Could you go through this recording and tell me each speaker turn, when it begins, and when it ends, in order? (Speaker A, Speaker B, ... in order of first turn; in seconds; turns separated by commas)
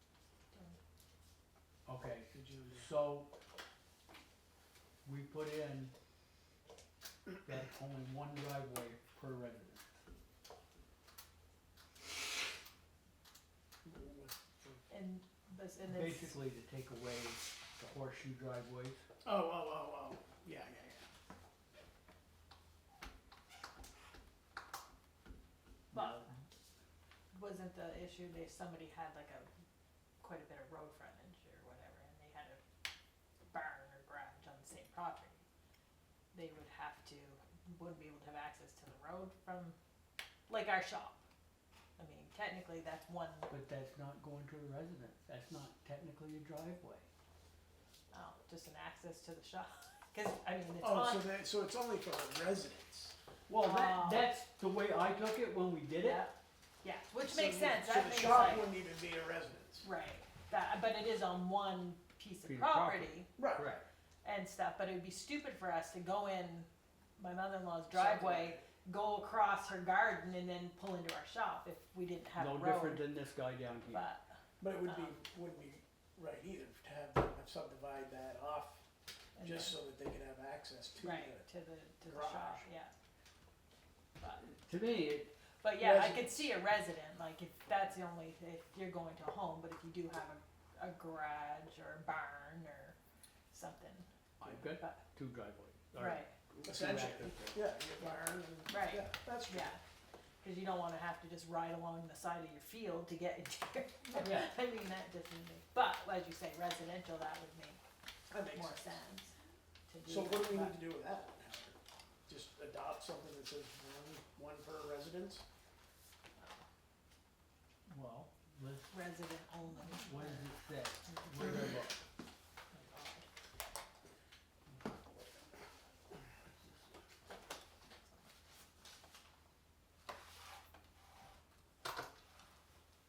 Speaker A: 0.5-0.8, Speaker B: 1.9-3.3, Speaker C: 2.3-2.9, Speaker B: 5.0-5.9, Speaker B: 7.4-9.8, Speaker C: 13.8-14.8, Speaker A: 14.9-16.3, Speaker B: 15.8-19.0, Speaker C: 19.2-21.1, Speaker B: 25.9-26.4, Speaker A: 25.9-26.3, Speaker A: 27.3-29.5, Speaker A: 30.2-32.6, Speaker A: 33.5-35.4, Speaker A: 36.3-39.8, Speaker A: 40.5-41.2, Speaker A: 42.0-43.5, Speaker B: 43.5-47.1, Speaker A: 48.1-51.3, Speaker C: 50.8-53.1, Speaker B: 53.5-56.2, Speaker A: 53.6-54.2, Speaker A: 56.0-58.7, Speaker C: 57.2-59.9, Speaker A: 59.8-63.3, Speaker B: 62.4-63.9, Speaker C: 63.4-63.6, Speaker A: 64.2-73.1, Speaker C: 67.9-68.7, Speaker B: 72.4-74.1, Speaker A: 73.9-75.1, Speaker C: 74.6-78.8, Speaker A: 79.4-79.7, Speaker C: 79.4-81.5, Speaker A: 81.0-82.9, Speaker C: 82.1-82.7, Speaker A: 84.2-84.5, Speaker B: 84.4-85.3, Speaker A: 85.6-93.0, Speaker C: 85.8-86.5, Speaker A: 93.5-95.0, Speaker B: 94.4-97.6, Speaker A: 96.0-96.3, Speaker C: 96.7-99.7, Speaker A: 98.0-99.8, Speaker A: 100.4-107.8, Speaker B: 104.2-104.5, Speaker C: 108.3-109.0, Speaker A: 108.5-110.8, Speaker C: 110.0-111.8, Speaker C: 112.3-115.4, Speaker A: 116.4-116.6, Speaker B: 117.9-118.9, Speaker A: 118.9-120.5, Speaker B: 119.8-122.0, Speaker A: 122.7-123.3